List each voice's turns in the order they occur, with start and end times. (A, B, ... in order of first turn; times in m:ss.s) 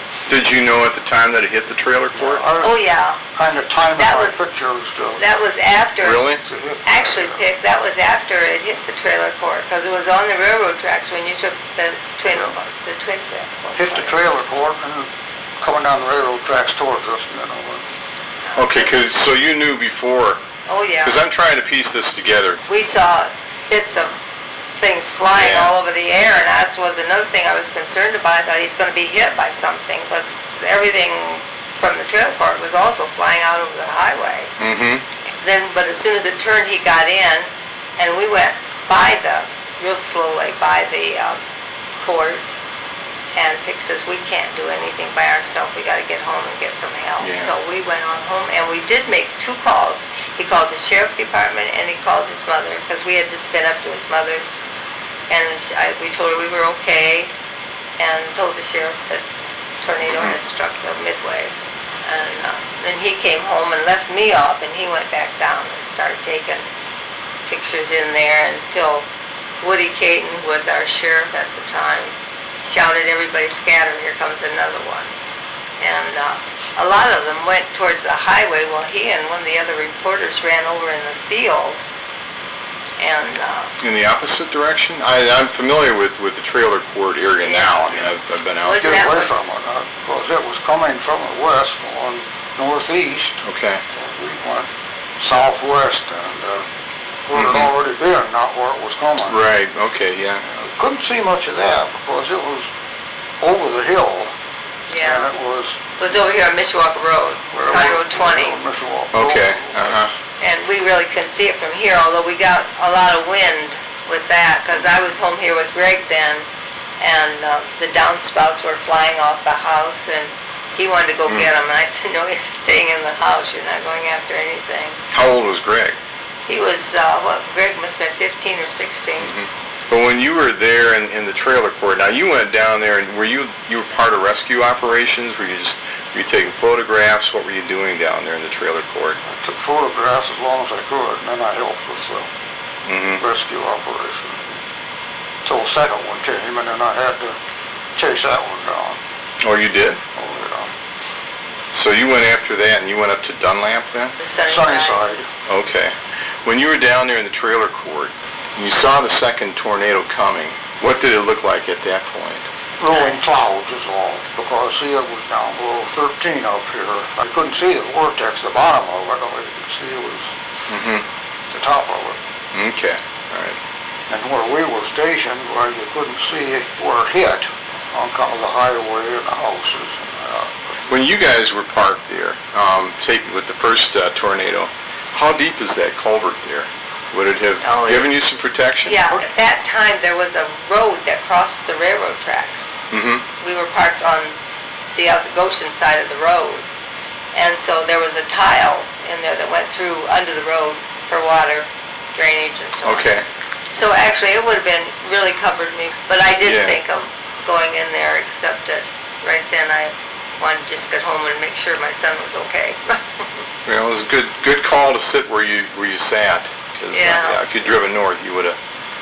0:00.3-0:02.4 A
0:02.2-0:02.8 B
0:02.6-0:03.2 C
0:03.3-0:05.2 B
0:04.0-0:04.4 C
0:05.2-0:14.2 C
0:06.0-0:06.4 A
0:06.4-0:07.4 B
0:13.7-0:17.9 B
0:18.4-0:19.0 C
0:18.6-0:20.4 A
0:20.7-0:21.2 C
0:21.0-0:22.6 A
0:22.6-0:24.2 C
0:24.8-0:34.5 C
0:25.3-0:25.7 A
0:34.6-0:35.0 A
0:35.4-0:41.4 C
0:42.0-0:42.6 C
0:43.4-0:54.6 C
0:47.2-0:47.5 A
0:55.3-0:57.3 C
0:58.0-0:59.2 C
0:59.8-1:06.7 C
1:00.1-1:00.4 A
1:07.4-1:09.1 C
1:09.6-1:15.1 C
1:15.8-1:21.8 C
1:23.0-1:23.7 C
1:23.8-1:29.0 A
1:27.4-1:29.3 C
1:28.8-1:36.7 B
1:33.4-1:33.8 A
1:37.2-1:39.4 B
1:37.3-1:37.7 A
1:39.2-1:40.4 A
1:40.4-1:42.7 B
1:43.4-1:44.3 B
1:44.9-1:45.3 C
1:45.0-1:45.8 B
1:46.0-1:48.6 C
1:47.5-1:50.2 B
1:49.1-1:50.1 A
1:50.4-1:56.5 C
1:57.0-2:05.0 C
2:05.1-2:06.0 A
2:06.5-2:09.3 C
2:09.2-2:19.2 A
2:19.2-2:22.3 B
2:22.8-2:23.2 A
2:23.2-2:24.6 B
2:25.4-2:27.4 B
2:27.9-2:29.0 B
2:29.4-2:30.0 A
2:30.1-2:30.7 B
2:31.7-2:34.1 A
2:34.2-2:35.0 C
2:34.4-2:35.3 B
2:35.5-2:42.5 A
2:42.8-2:50.3 B
2:42.9-2:43.2 C
2:50.7-2:51.0 A
2:51.5-2:52.2 B
2:52.5-2:53.6 A
2:54.1-3:00.8 B
3:00.9-3:09.2 A
3:07.6-3:08.1 C
3:08.8-3:12.8 C
3:12.9-3:13.2 A
3:13.4-3:14.4 C
3:14.9-3:16.6 C
3:17.3-3:23.1 C
3:22.8-3:23.2 A
3:23.7-3:33.3 C
3:26.4-3:26.8 A
3:33.6-3:38.6 A
3:36.9-3:37.4 C